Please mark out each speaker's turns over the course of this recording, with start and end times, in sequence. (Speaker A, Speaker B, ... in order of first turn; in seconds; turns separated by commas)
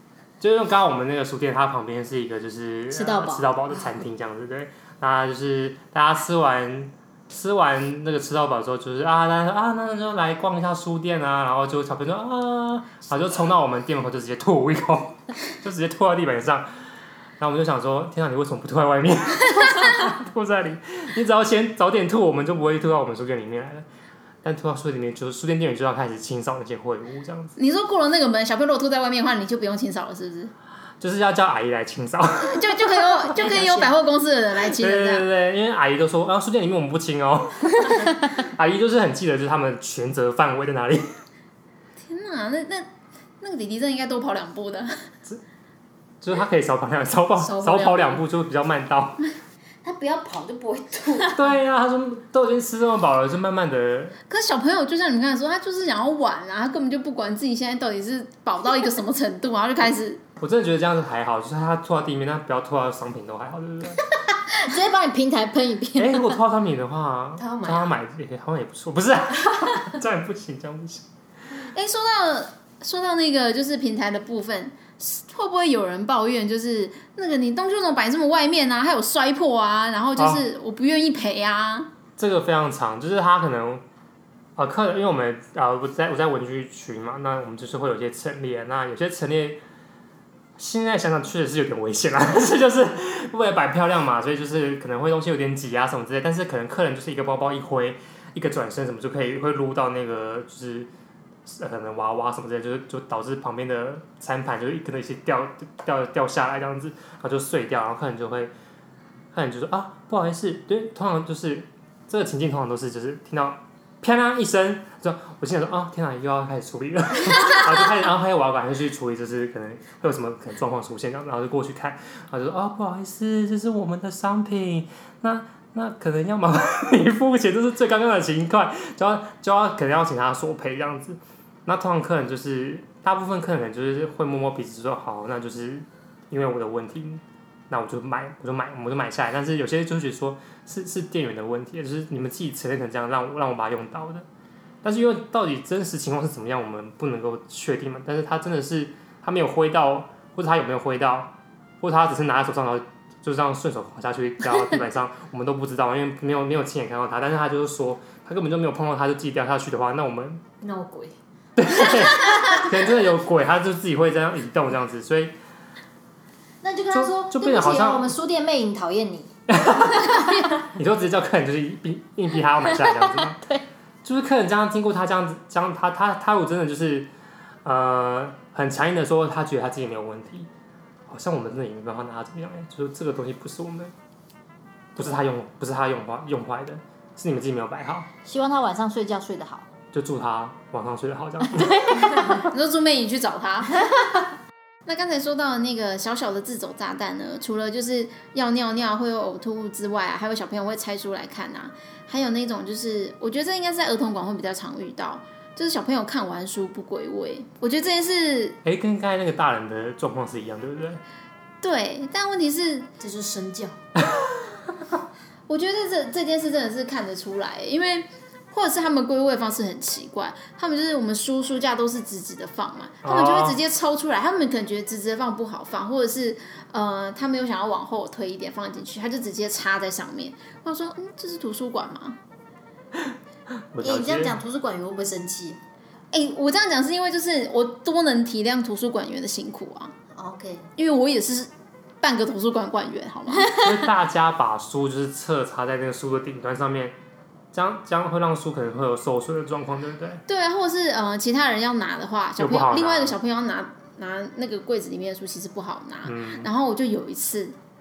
Speaker A: 0.4-16.7, Speaker B: 2.9-3.5, Speaker A: 17.4-23.9, Speaker A: 24.4-27.6, Speaker C: 27.6-30.5, Speaker A: 31.0-33.0, Speaker C: 32.4-35.3, Speaker D: 33.3-34.0, Speaker A: 34.7-41.1, Speaker C: 42.1-42.9, Speaker C: 43.4-45.0, Speaker A: 46.2-49.3, Speaker D: 47.4-48.2, Speaker B: 49.8-51.4, Speaker A: 51.4-54.2, Speaker C: 54.3-60.2, Speaker A: 60.4-64.0, Speaker B: 64.3-66.4, Speaker A: 66.0-71.0, Speaker D: 67.4-68.0, Speaker C: 71.7-81.9, Speaker A: 80.2-80.4, Speaker A: 82.2-83.8, Speaker A: 84.6-89.6, Speaker A: 90.6-100.9, Speaker A: 101.5-108.5, Speaker A: 109.3-144.3, Speaker A: 144.8-160.4, Speaker D: 160.6-161.2, Speaker A: 161.6-165.3, Speaker B: 166.6-169.3, Speaker A: 166.9-168.1, Speaker A: 169.5-173.4, Speaker B: 172.7-173.6, Speaker A: 174.0-177.1, Speaker A: 177.6-180.5, Speaker A: 181.1-183.9, Speaker A: 184.9-188.1, Speaker B: 188.2-189.7, Speaker A: 189.9-192.4, Speaker B: 191.5-192.2, Speaker C: 192.3-193.9, Speaker C: 194.9-208.6, Speaker A: 208.6-211.0, Speaker C: 211.6-212.9, Speaker D: 213.0-213.8, Speaker C: 215.5-232.2, Speaker A: 223.0-223.6, Speaker A: 233.7-234.3, Speaker B: 233.8-235.6, Speaker C: 236.1-239.9, Speaker B: 240.1-240.7, Speaker C: 240.8-241.5, Speaker C: 242.0-243.5, Speaker A: 243.5-246.9, Speaker A: 247.5-250.2, Speaker C: 250.3-257.6, Speaker A: 252.4-253.2, Speaker A: 256.1-256.5